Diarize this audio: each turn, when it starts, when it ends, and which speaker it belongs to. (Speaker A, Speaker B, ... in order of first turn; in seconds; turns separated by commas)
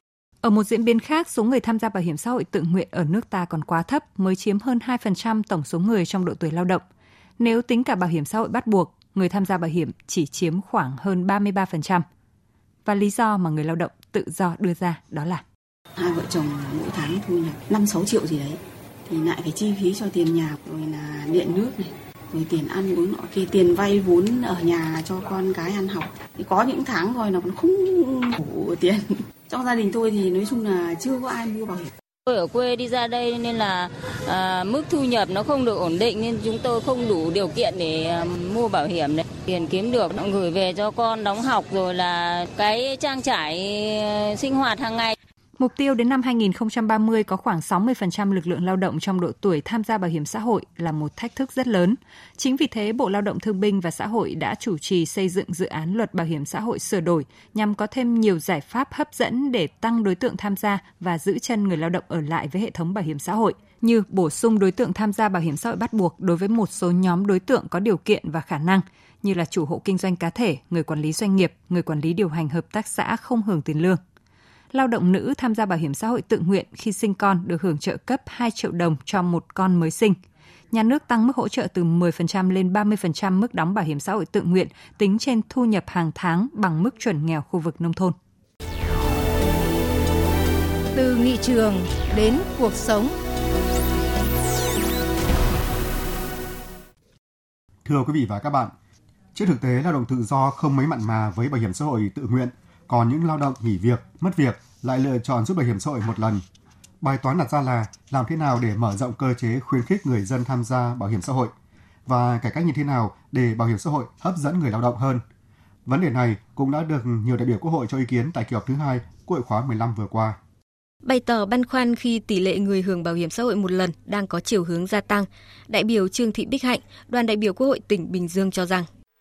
Speaker A: 0.4-6.8, Speaker A: 7.4-12.0, Speaker A: 12.8-15.4, Speaker B: 15.9-31.9, Speaker C: 32.3-45.1, Speaker A: 45.6-74.0, Speaker A: 74.7-80.2, Speaker A: 80.7-88.1, Speaker D: 91.0-93.1, Speaker E: 97.8-98.7, Speaker E: 99.3-106.4, Speaker E: 107.0-111.5, Speaker E: 112.1-115.2, Speaker E: 115.8-120.4, Speaker F: 121.0-128.9